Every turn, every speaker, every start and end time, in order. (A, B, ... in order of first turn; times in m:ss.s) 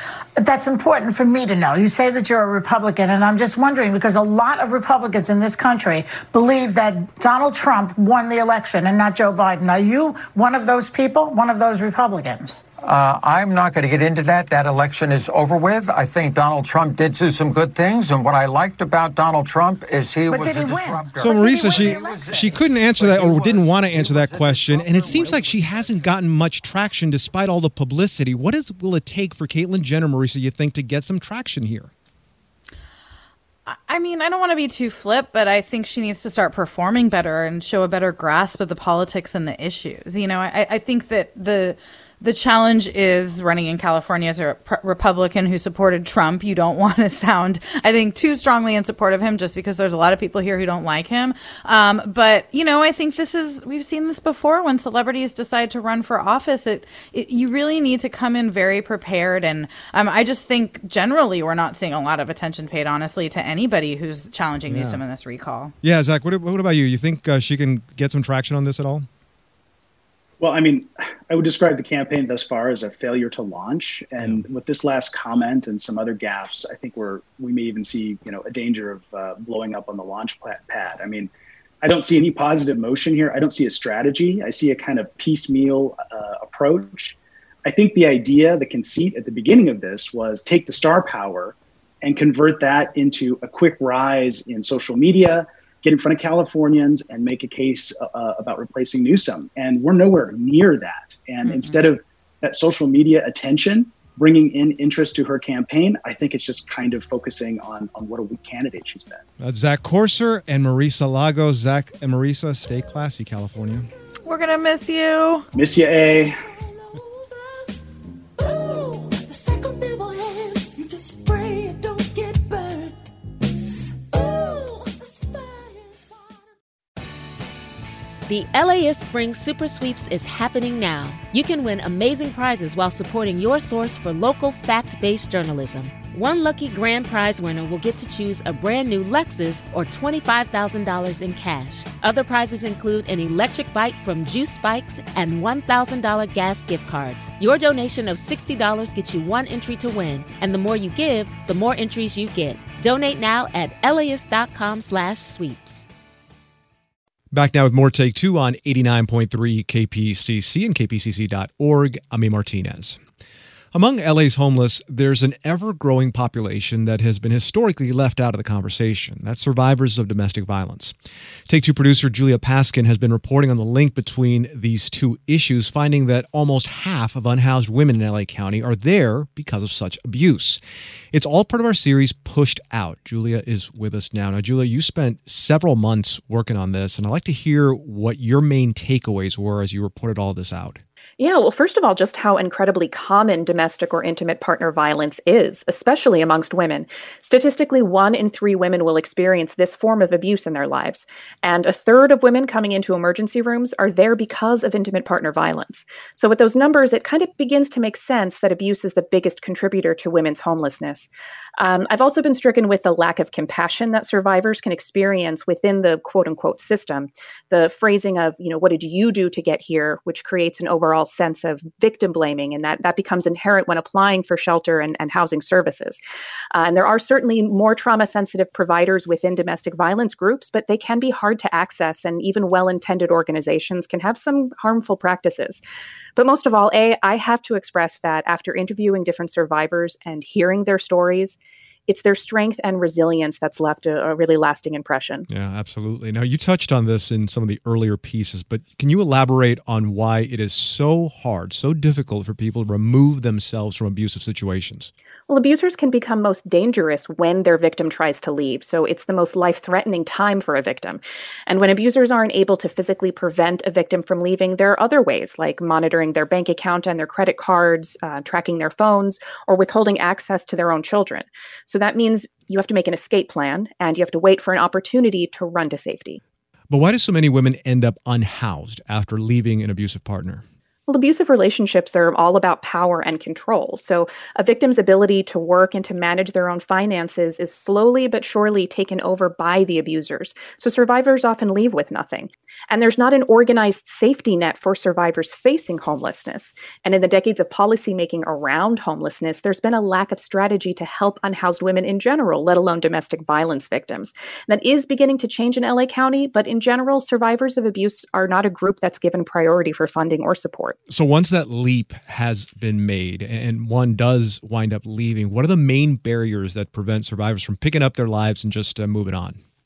0:00.4-0:12.6 A
0:12.8-0:26.1 B
0:20.3-0:22.5 A
0:21.2-0:31.9 C
0:33.7-1:05.7 D
1:04.7-1:05.0 C
1:05.8-1:09.1 C
1:10.4-1:21.3 E
1:21.8-1:49.2 E
1:41.4-1:41.8 D
1:49.4-1:53.9 C
1:54.2-1:55.4 D
1:55.5-1:56.4 E
2:08.2-2:35.8 F
2:37.3-2:43.0 C
2:43.7-2:50.9 C
2:51.5-3:00.6 C
3:01.1-3:10.8 C
3:11.2-3:46.0 G
3:46.5-3:55.6 G
3:56.1-4:05.2 G
4:05.3-4:14.9 C
4:15.3-4:36.2 G
4:36.7-4:40.4 C
4:40.9-5:10.8 G
5:10.9-5:19.4 C